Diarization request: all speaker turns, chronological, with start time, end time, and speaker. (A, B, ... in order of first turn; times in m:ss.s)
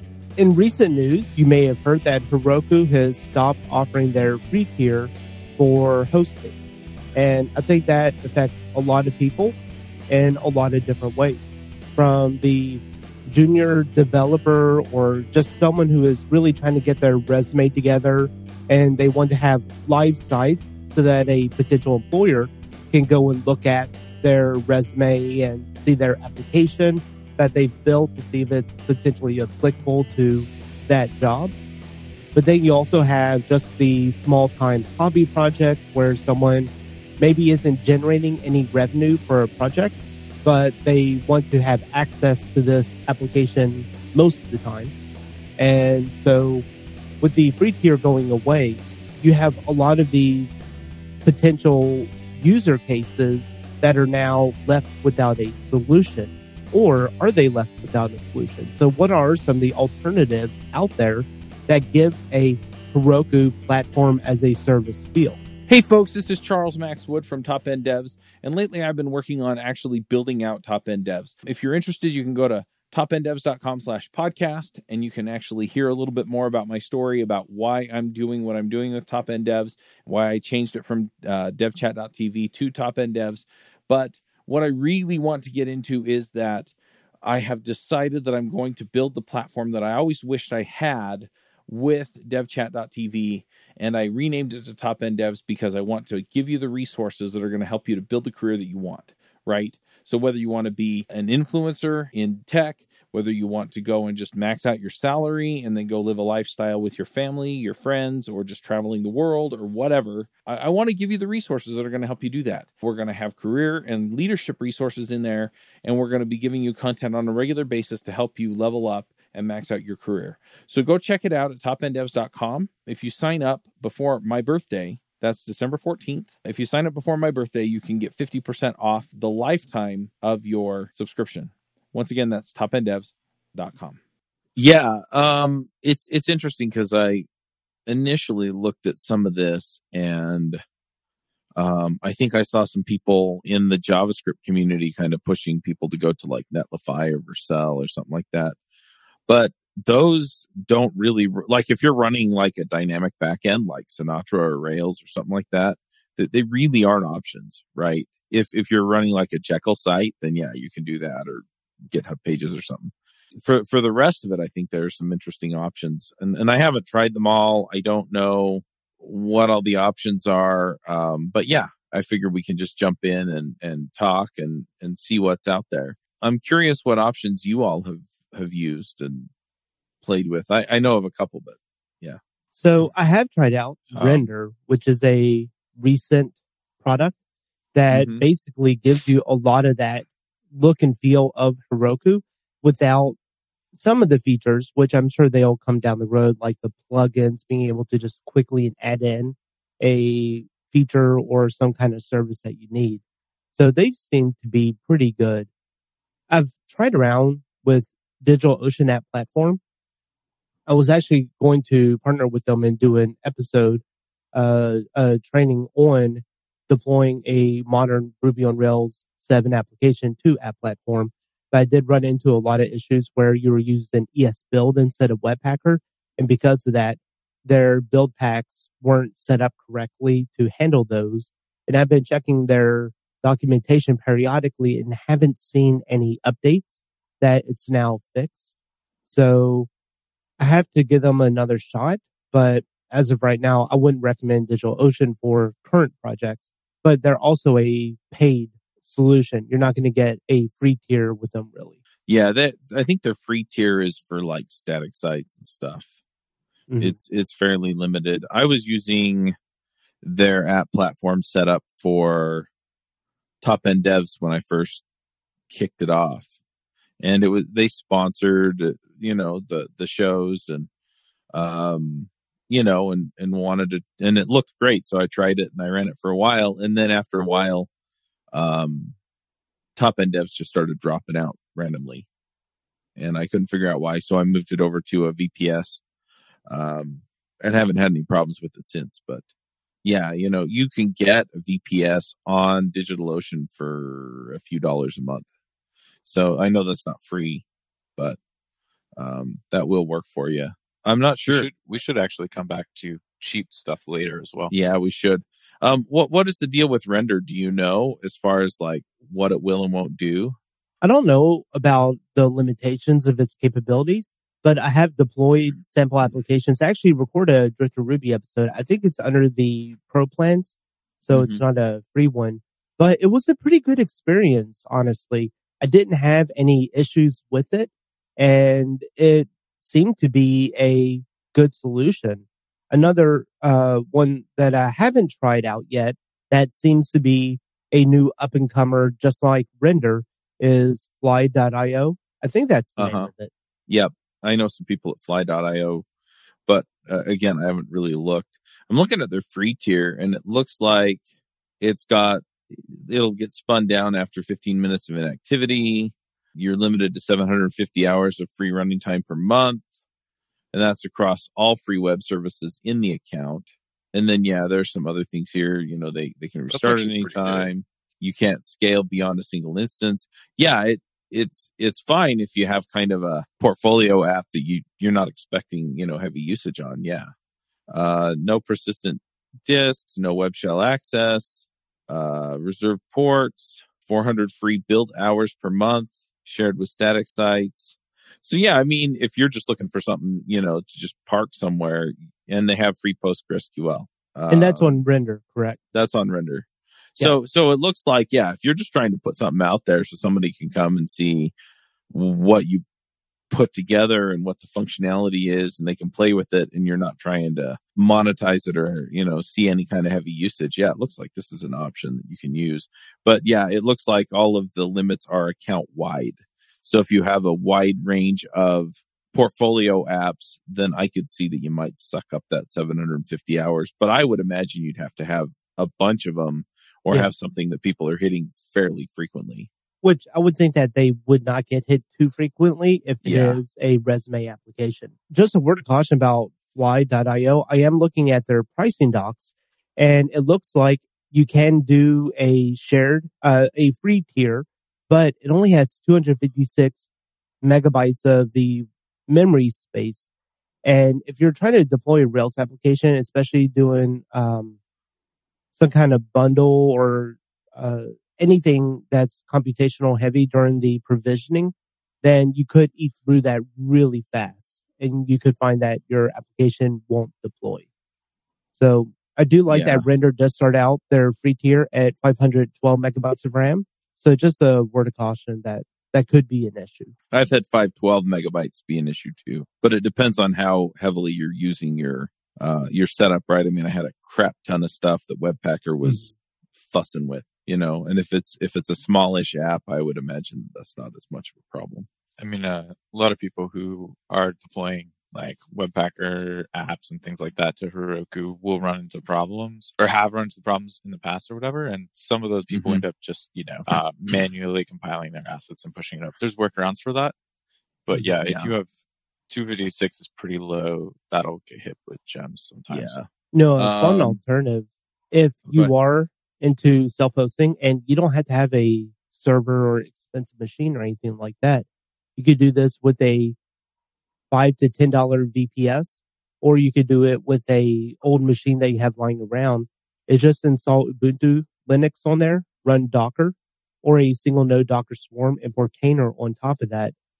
0:00.4-0:06.6 A
0:07.1-0:09.6 A
0:10.1-0:11.4 A
0:12.0-0:31.5 A
0:32.3-0:44.9 A
0:45.6-0:46.6 A
0:47.2-0:50.6 A
0:51.2-1:05.4 A
1:05.7-1:26.7 B
1:27.2-2:14.0 B
2:14.6-2:17.2 B
2:17.9-2:20.6 B
2:21.6-2:28.5 B
2:29.3-2:59.3 B
3:00.0-3:02.2 B
3:02.6-3:07.1 A
3:03.9-3:04.3 C
3:07.7-3:13.2 A
3:07.9-3:08.2 B
3:13.7-3:23.0 A
3:23.6-3:25.5 A
3:26.3-3:29.6 A
3:30.7-3:33.8 A
3:34.3-3:56.6 A
3:57.2-3:58.4 A
3:59.1-3:59.7 A
4:00.4-4:11.8 A
4:12.1-4:15.9 B
4:16.7-4:17.0 A
4:16.8-4:19.3 B
4:20.0-4:22.5 B
4:23.4-4:24.8 B
4:25.5-4:26.2 B
4:27.0-4:30.7 B
4:31.3-4:37.7 B
4:38.3-4:38.9 B
4:39.8-4:42.0 B
4:43.0-4:45.8 B
4:46.5-4:49.2 B
4:49.8-4:55.3 B
4:56.0-4:57.4 B
4:59.0-5:01.5 B
5:01.3-5:04.5 C
5:04.5-5:10.4 B
5:10.8-5:20.5 A
5:21.0-5:43.3 A
5:21.1-5:21.4 B
5:42.8-5:43.1 B
5:43.7-5:45.8 B
5:46.5-5:51.0 B
5:51.6-5:59.6 B
6:00.5-6:17.1 B
6:06.5-6:07.5 C
6:17.7-6:34.8 B
6:34.3-6:35.6 A
6:35.7-6:36.4 B
6:37.0-6:41.3 B
6:41.9-6:42.6 B
6:43.3-7:09.5 B
7:09.8-7:26.8 A
7:13.0-7:13.4 B
7:27.4-7:30.0 A
7:30.6-7:34.5 A
7:35.6-7:47.6 A
7:48.6-7:56.9 A
7:49.5-7:49.8 B
7:57.1-8:06.1 B
8:05.8-8:06.1 A
8:06.6-8:11.9 B
8:12.2-8:27.1 C
8:22.5-8:22.8 B
8:27.9-8:28.7 C
8:27.9-8:28.5 B
8:29.3-8:33.0 C
8:32.7-8:34.2 B
8:33.3-8:41.6 A
8:42.2-8:43.4 A
8:44.3-8:56.9 A